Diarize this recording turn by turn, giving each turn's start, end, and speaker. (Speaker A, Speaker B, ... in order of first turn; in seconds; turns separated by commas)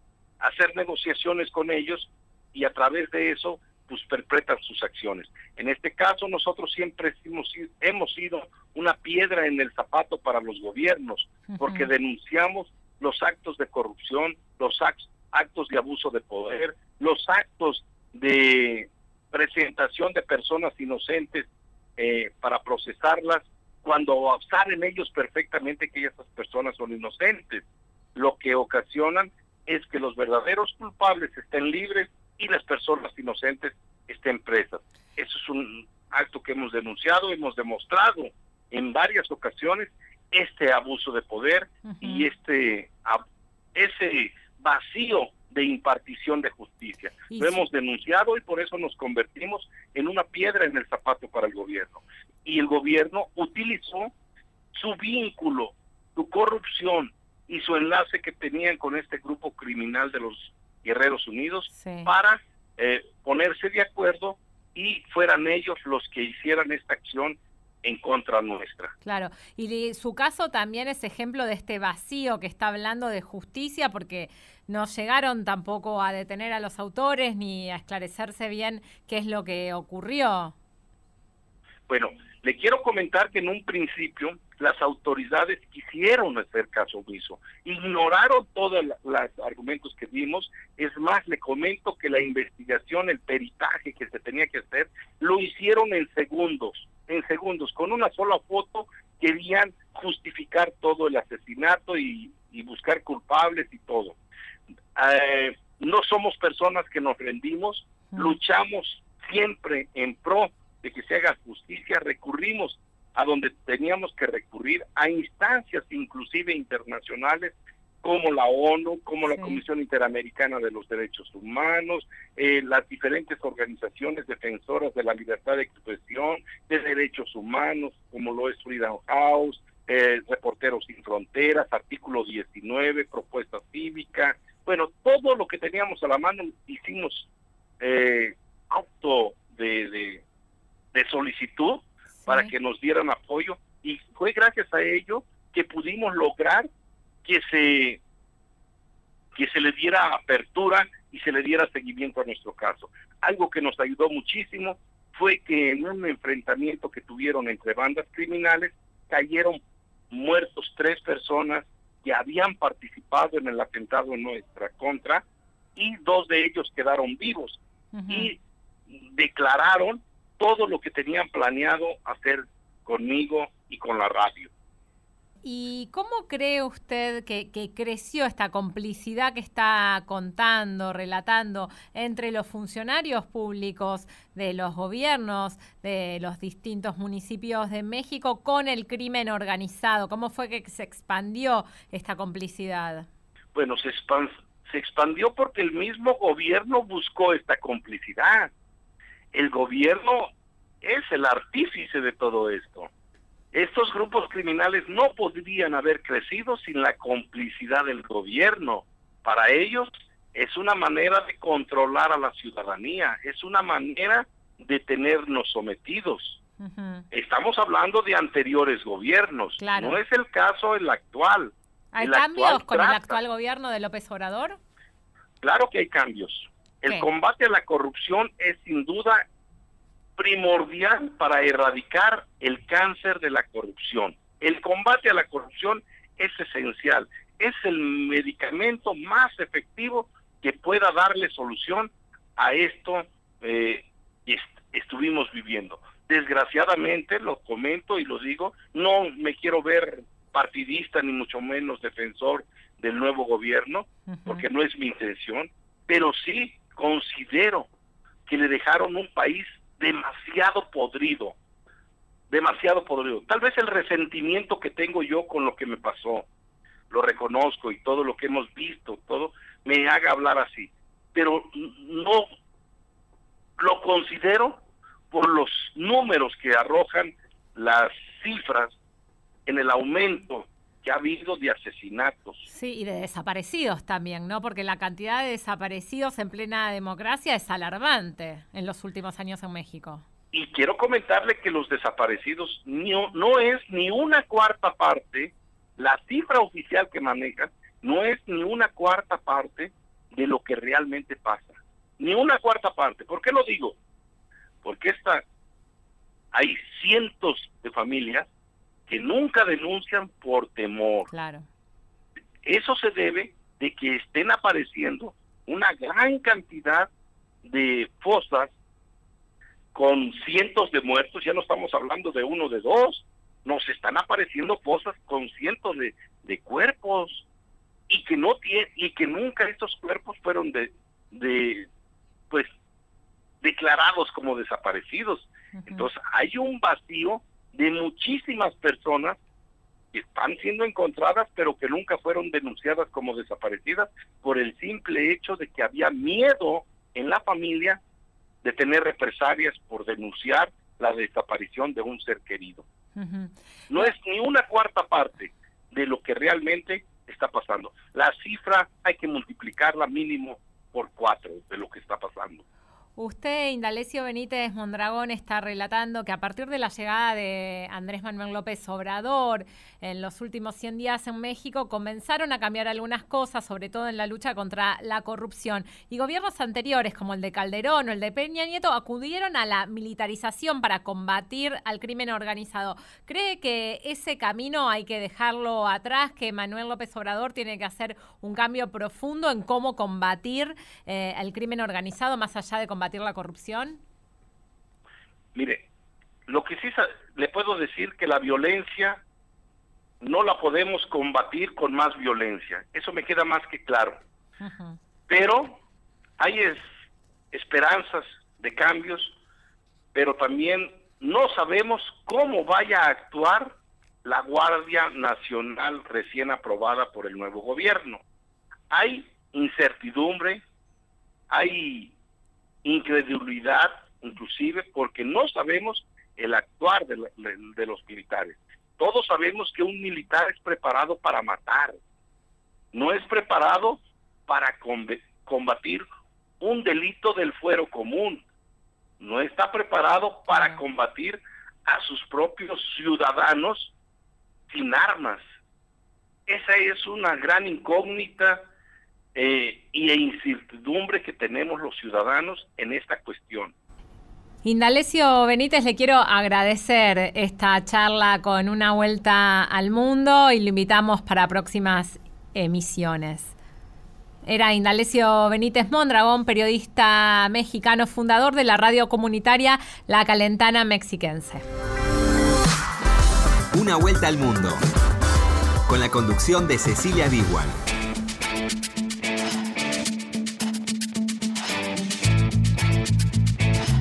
Speaker A: 0.4-27.6, Speaker B: 11.5-11.9, Speaker A: 28.1-43.2, Speaker B: 41.9-42.3, Speaker A: 43.8-54.1, Speaker B: 47.3-47.7, Speaker A: 54.7-68.9, Speaker B: 61.7-62.1, Speaker B: 69.0-80.5, Speaker A: 81.9-104.2, Speaker A: 105.0-137.3, Speaker B: 108.1-108.4, Speaker B: 119.3-119.6, Speaker A: 137.8-140.2, Speaker A: 140.9-146.7, Speaker B: 142.2-142.5, Speaker A: 147.2-148.0, Speaker A: 149.3-159.6, Speaker A: 160.1-165.2, Speaker A: 165.8-168.4, Speaker B: 167.9-168.3, Speaker A: 168.9-174.5, Speaker B: 175.4-193.1, Speaker A: 193.6-198.5, Speaker A: 199.3-200.3, Speaker A: 200.8-202.9, Speaker A: 203.5-216.4, Speaker B: 216.6-217.1, Speaker A: 217.1-223.2, Speaker B: 219.6-220.0, Speaker B: 221.9-224.6, Speaker A: 225.4-229.2, Speaker A: 230.2-257.7, Speaker B: 254.1-254.5, Speaker A: 258.3-261.4, Speaker A: 262.3-266.3, Speaker A: 266.9-272.3, Speaker A: 273.6-278.8, Speaker A: 279.5-282.4, Speaker B: 282.5-290.1, Speaker A: 290.3-303.8, Speaker A: 304.6-305.2, Speaker A: 306.3-308.3, Speaker A: 308.9-311.1, Speaker B: 311.1-311.5, Speaker A: 312.4-316.9, Speaker A: 317.4-318.5, Speaker A: 319.7-327.2, Speaker A: 327.9-331.7, Speaker A: 333.4-339.2, Speaker B: 335.5-335.9, Speaker A: 339.9-347.8, Speaker A: 348.4-352.6, Speaker B: 353.0-353.9, Speaker A: 353.7-362.4, Speaker B: 363.0-393.8, Speaker A: 395.4-395.6, Speaker A: 396.3-399.0, Speaker A: 400.0-404.0, Speaker B: 404.4-404.8, Speaker A: 405.1-405.6, Speaker A: 406.2-406.6, Speaker A: 407.3-409.1, Speaker A: 409.9-418.0, Speaker A: 418.7-420.4, Speaker A: 421.3-421.9, Speaker A: 422.6-431.8, Speaker A: 432.7-435.9, Speaker A: 436.4-438.2, Speaker A: 439.0-443.7, Speaker B: 440.3-440.6, Speaker A: 444.5-445.2, Speaker A: 446.3-448.5, Speaker A: 449.1-453.5, Speaker B: 454.4-463.3, Speaker B: 464.2-471.4, Speaker C: 473.5-474.6, Speaker C: 475.7-477.6